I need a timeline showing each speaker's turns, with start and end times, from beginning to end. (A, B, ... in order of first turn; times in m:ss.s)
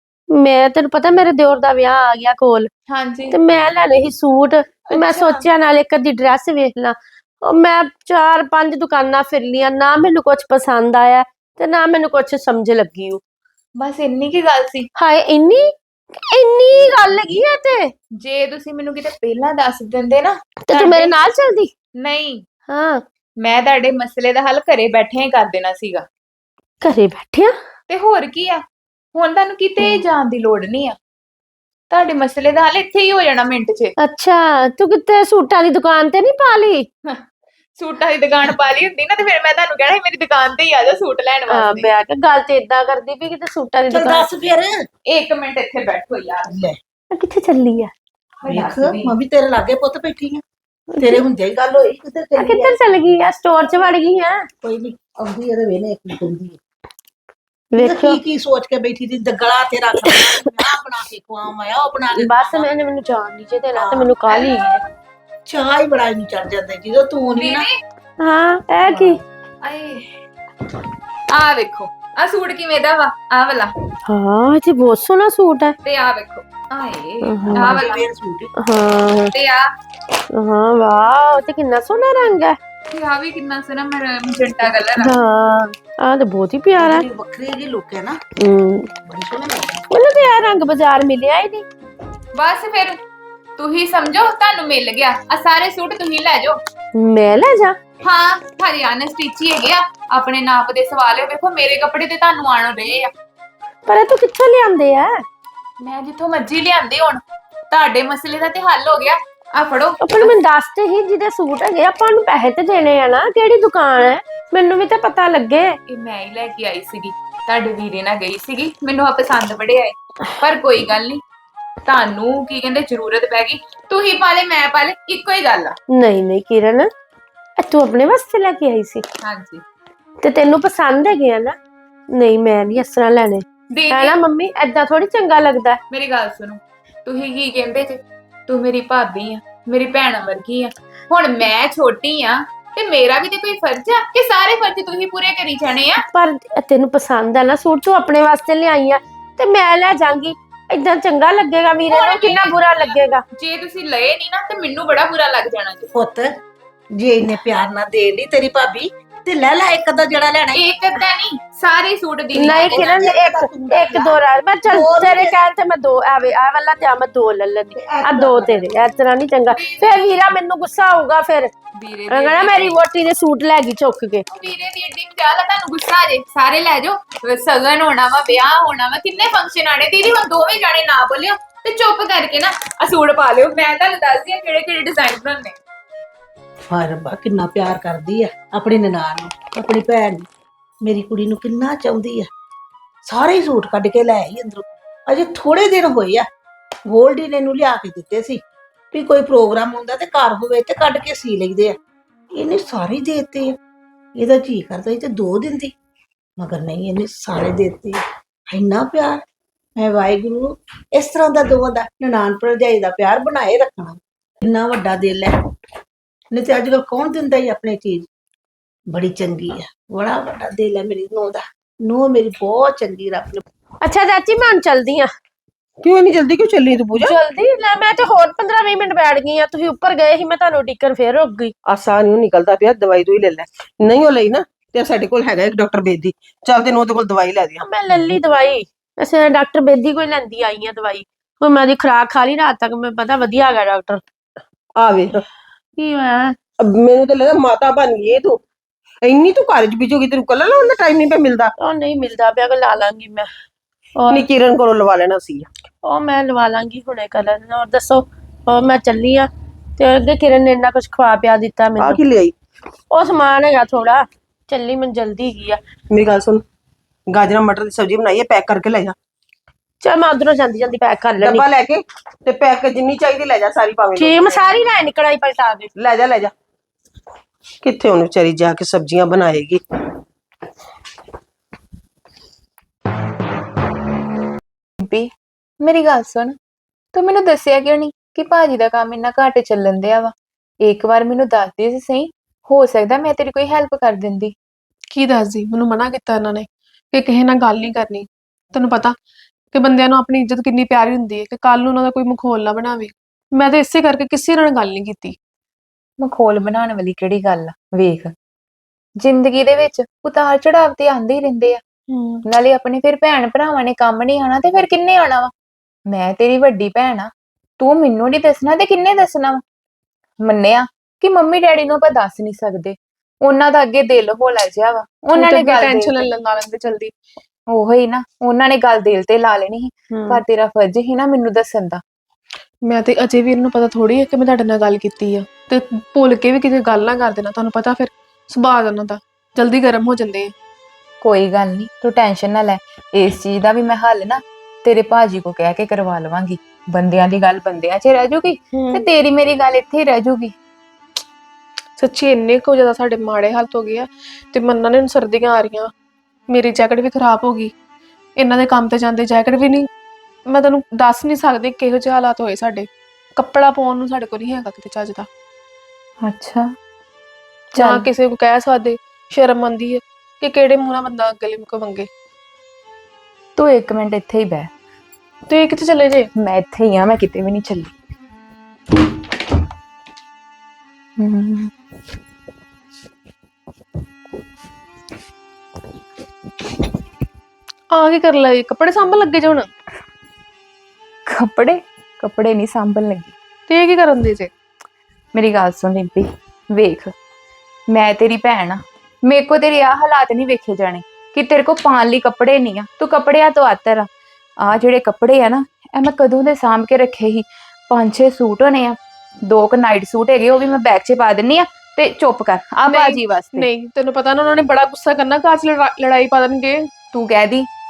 0:00.3-0:02.7 A
0:02.9-0:03.4 B
0:03.3-0:13.2 A
0:04.9-0:05.4 B
0:13.8-0:14.9 B
0:15.0-0:15.7 A
0:16.3-0:17.9 A
0:18.2-0:21.2 B
0:20.7-0:21.7 A
0:22.0-0:22.4 B
0:22.7-0:23.0 A
0:23.4-0:26.1 B
0:26.8-0:27.6 A
0:27.9-0:28.6 B
0:29.1-0:31.0 B
0:31.9-0:33.9 B
0:34.0-0:36.9 A
0:37.8-0:41.9 B
0:41.5-0:44.3 A
0:43.9-0:44.8 C
0:45.1-0:46.5 B
0:46.5-0:46.8 C
0:47.1-0:47.9 A
0:48.4-0:49.2 B
0:48.5-0:50.4 C
0:50.9-0:51.2 A
0:51.0-0:53.2 C
0:52.4-0:54.5 A
0:54.6-0:56.6 C
0:57.7-0:58.2 A
0:57.8-1:02.7 C
1:02.1-1:04.8 A
1:03.7-1:04.2 C
1:04.3-1:04.8 B
1:05.5-1:07.7 C
1:07.4-1:07.8 B
1:08.2-1:09.2 A
1:09.6-1:10.1 B
1:11.3-1:13.7 B
1:14.1-1:15.8 A
1:15.8-1:18.0 B
1:17.2-1:17.7 A
1:17.5-1:18.5 C
1:18.6-1:19.3 A
1:19.3-1:19.7 B
1:20.3-1:22.6 A
1:22.9-1:25.2 B
1:25.0-1:27.1 A
1:26.8-1:28.3 C
1:28.4-1:28.9 A
1:29.0-1:30.3 C
1:29.9-1:31.7 A
1:32.4-1:33.0 B
1:33.6-1:36.6 B
1:37.0-1:37.8 A
1:38.0-1:43.1 B
1:43.9-1:45.2 A
1:45.8-1:50.3 B
1:50.0-1:55.8 A
1:55.9-2:01.2 B
2:01.9-2:05.8 B
2:05.9-2:06.9 A
2:07.6-2:09.0 A
2:09.2-2:09.6 B
2:10.2-2:11.6 A
2:12.1-2:15.8 A
2:13.7-2:14.2 B
2:15.9-2:26.0 B
2:26.1-2:33.2 A
2:31.9-2:35.9 B
2:35.9-2:36.4 C
2:37.0-2:40.7 C
2:40.5-2:43.0 B
2:42.3-2:51.5 A
2:42.4-2:45.4 C
2:47.8-2:48.7 C
2:49.5-2:50.1 B
2:51.8-2:52.8 B
2:52.1-2:54.2 A
2:54.3-3:05.6 B
3:06.7-3:10.3 C
3:10.8-3:12.3 C
3:13.0-3:16.3 C
3:16.9-3:21.8 C
3:22.3-3:23.6 C
3:24.2-3:25.7 C
3:26.4-3:29.2 C
3:29.8-3:35.4 C
3:36.3-3:38.1 C
3:38.9-3:43.4 C
3:43.8-3:45.1 A
3:45.8-3:47.2 D
3:47.0-3:51.5 A
3:51.7-3:58.2 D
3:57.6-4:04.0 A
4:04.8-4:05.2 D
4:05.8-4:06.4 A
4:06.6-4:08.4 D
4:09.0-4:11.5 D
4:11.6-4:13.3 A
4:14.0-4:14.2 A
4:14.1-4:15.5 D
4:15.8-4:22.0 A
4:21.8-4:22.3 D
4:22.9-4:25.6 A
4:25.9-4:26.4 D
4:27.1-4:29.0 D
4:29.8-4:31.4 A
4:31.2-4:34.5 D
4:34.0-4:35.7 A
4:35.8-4:36.3 D
4:37.6-4:39.6 D
4:44.8-4:46.4 B
4:46.9-4:54.4 B
4:54.9-4:59.0 E
4:59.5-5:05.2 E
5:06.0-5:08.1 B
5:09.0-5:11.6 B
5:11.9-5:12.2 E
5:12.2-5:15.3 B
5:15.9-5:19.4 B
5:20.2-5:26.1 B
5:25.1-5:26.9 E
5:27.5-5:31.8 B
5:29.9-5:30.2 A
5:32.7-5:40.3 E
5:41.0-5:50.4 B
5:48.5-5:48.9 A
5:51.8-5:55.7 E
5:56.3-5:57.5 E
5:58.2-5:59.7 E
6:00.3-6:05.1 E
6:06.0-6:06.5 B
6:07.5-6:11.9 E
6:07.6-6:07.9 B
6:13.4-6:14.5 B
6:15.3-6:16.1 E
6:16.2-6:17.7 B
6:21.0-6:21.5 B
6:27.7-6:29.5 E
6:31.1-6:33.1 B
6:33.5-6:34.3 E
6:35.1-6:36.9 B
6:37.7-6:43.9 B
6:44.4-6:53.5 B
6:52.7-6:56.7 E
6:56.9-6:57.5 B